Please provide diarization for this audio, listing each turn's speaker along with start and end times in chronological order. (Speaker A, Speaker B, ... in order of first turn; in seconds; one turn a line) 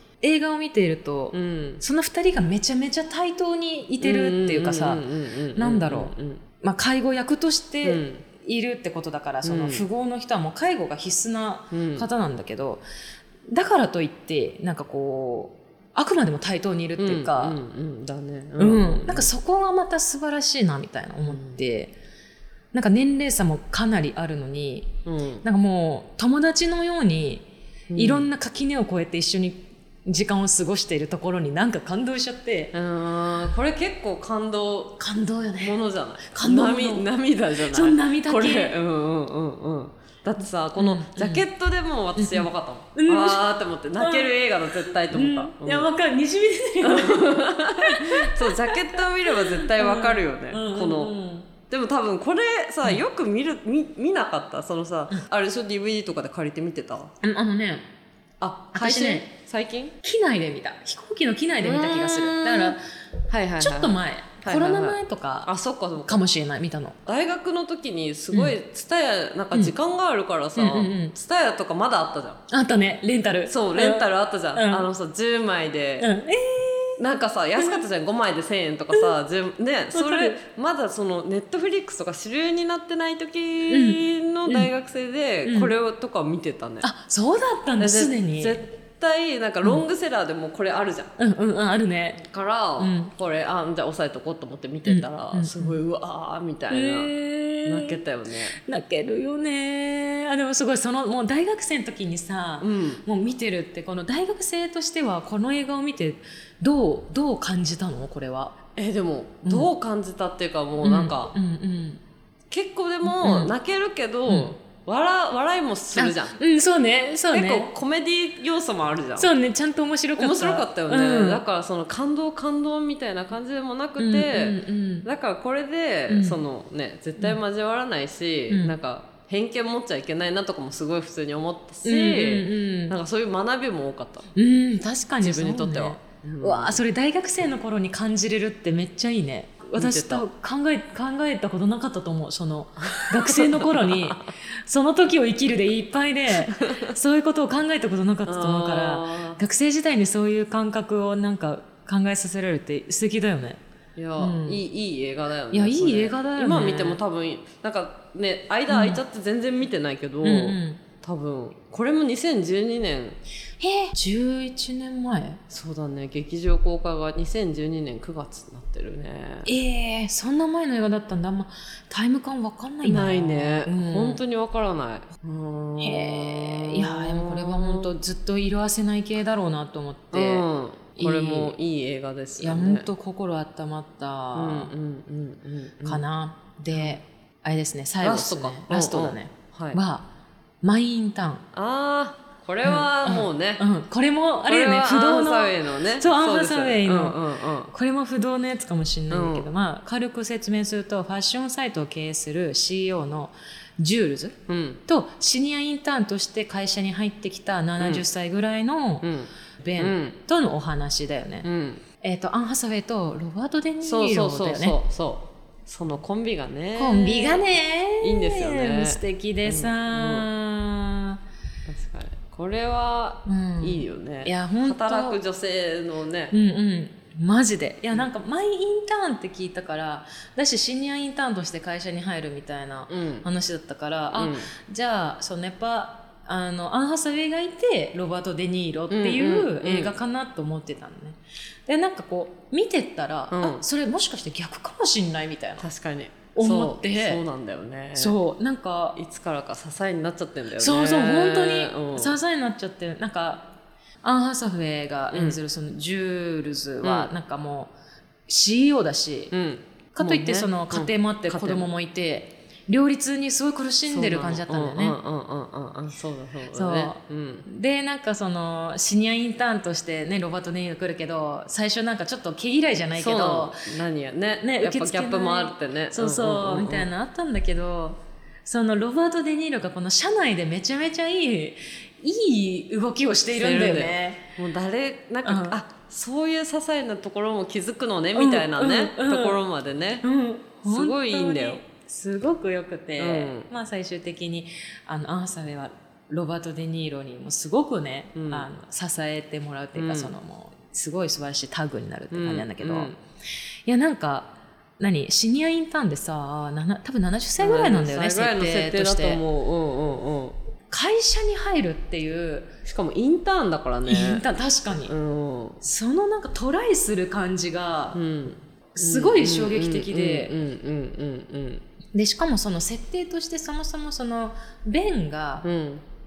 Speaker A: 0.2-12.8
Speaker B: 1.3-1.8
Speaker B: 4.0-6.4
Speaker B: 7.8-8.2
Speaker B: 9.4-9.8
Speaker B: 11.7-12.1
Speaker A: 13.5-17.6
Speaker B: 17.0-19.3
Speaker A: 18.6-21.9
Speaker B: 21.3-21.6
Speaker A: 22.7-24.9
Speaker B: 25.1-25.4
Speaker A: 25.4-32.7
Speaker B: 27.9-28.3
Speaker B: 32.7-35.0
Speaker A: 35.0-37.1
Speaker B: 35.6-45.9
Speaker A: 37.7-38.8
Speaker A: 40.8-41.5
Speaker A: 42.1-43.5
Speaker A: 44.0-51.5
Speaker B: 46.8-51.1
Speaker B: 51.7-57.1
Speaker A: 57.2-57.8
Speaker B: 58.4-60.0
Speaker A: 58.7-59.2
Speaker A: 60.0-62.8
Speaker B: 61.6-62.8
Speaker B: 63.3-66.2
Speaker A: 63.6-65.5
Speaker A: 66.0-67.0
Speaker B: 67.0-72.4
Speaker A: 70.5-71.1
Speaker A: 72.5-74.9
Speaker B: 73.5-76.1
Speaker A: 76.0-77.0
Speaker B: 77.0-86.9
Speaker A: 77.6-77.8
Speaker A: 79.9-80.4
Speaker A: 83.7-84.7
Speaker A: 85.4-85.7
Speaker A: 86.8-88.6
Speaker B: 87.8-91.1
Speaker A: 91.2-92.2
Speaker B: 92.2-97.1
Speaker A: 92.8-93.1
Speaker A: 94.8-95.8
Speaker A: 96.7-98.0
Speaker B: 97.6-98.6
Speaker A: 98.5-108.5
Speaker B: 102.6-103.0
Speaker B: 108.8-111.3
Speaker A: 109.4-109.7
Speaker A: 110.8-112.0
Speaker B: 112.5-116.4
Speaker A: 113.0-113.5
Speaker A: 114.3-114.5
Speaker A: 115.9-117.7
Speaker B: 117.3-119.3
Speaker A: 119.2-121.4
Speaker B: 120.2-134.3
Speaker A: 124.0-125.1
Speaker A: 126.1-126.4
Speaker A: 128.5-128.8
Speaker A: 131.8-132.9
Speaker A: 134.3-153.6
Speaker B: 135.2-136.8
Speaker B: 139.8-140.2
Speaker B: 142.8-144.2
Speaker B: 146.4-146.9
Speaker B: 148.2-149.4
Speaker B: 153.9-163.2
Speaker A: 154.2-154.6
Speaker A: 155.5-157.0
Speaker A: 158.7-159.0
Speaker A: 160.2-160.8
Speaker A: 163.6-165.4
Speaker B: 165.5-169.5
Speaker A: 169.4-174.2
Speaker B: 172.8-177.9
Speaker A: 175.8-180.4
Speaker B: 180.1-182.9
Speaker A: 181.0-181.6
Speaker A: 182.4-184.7
Speaker B: 184.3-186.0
Speaker A: 185.8-190.1
Speaker B: 186.7-187.0
Speaker B: 188.0-189.8
Speaker A: 190.6-191.4
Speaker B: 191.5-193.6
Speaker A: 192.6-209.1
Speaker B: 194.4-197.7
Speaker B: 199.1-199.5
Speaker B: 204.5-204.8
Speaker B: 207.8-208.1
Speaker B: 209.0-210.2
Speaker A: 209.6-211.5
Speaker B: 211.4-211.8
Speaker A: 212.0-214.8
Speaker B: 213.8-217.4
Speaker A: 216.8-221.2
Speaker B: 218.0-220.3
Speaker B: 221.7-226.3
Speaker A: 223.2-225.2
Speaker A: 226.3-245.7
Speaker B: 232.9-233.3
Speaker B: 234.1-234.5
Speaker B: 238.9-239.9
Speaker B: 243.3-243.6
Speaker B: 245.6-248.2
Speaker A: 246.3-247.2
Speaker A: 247.9-249.0
Speaker B: 248.9-252.2
Speaker A: 250.6-253.5
Speaker A: 254.0-257.7
Speaker B: 255.1-255.4
Speaker B: 256.8-257.1
Speaker A: 258.3-259.3
Speaker B: 259.3-261.7
Speaker A: 259.9-265.0
Speaker B: 263.9-267.4
Speaker A: 266.5-273.7
Speaker B: 272.9-276.9
Speaker A: 274.4-284.3
Speaker B: 283.3-290.1
Speaker A: 285.2-285.6
Speaker A: 288.1-289.4
Speaker A: 290.0-302.9
Speaker B: 290.6-291.6
Speaker B: 293.0-293.5
Speaker B: 298.1-298.5
Speaker B: 299.7-300.1
Speaker B: 302.1-303.0
Speaker A: 303.7-309.2
Speaker B: 307.4-310.4
Speaker A: 310.7-312.5
Speaker B: 312.6-314.2
Speaker A: 313.9-314.9
Speaker B: 314.9-315.6
Speaker A: 315.6-318.0
Speaker B: 317.9-321.6
Speaker A: 318.7-320.3
Speaker A: 321.9-325.5
Speaker B: 325.4-325.8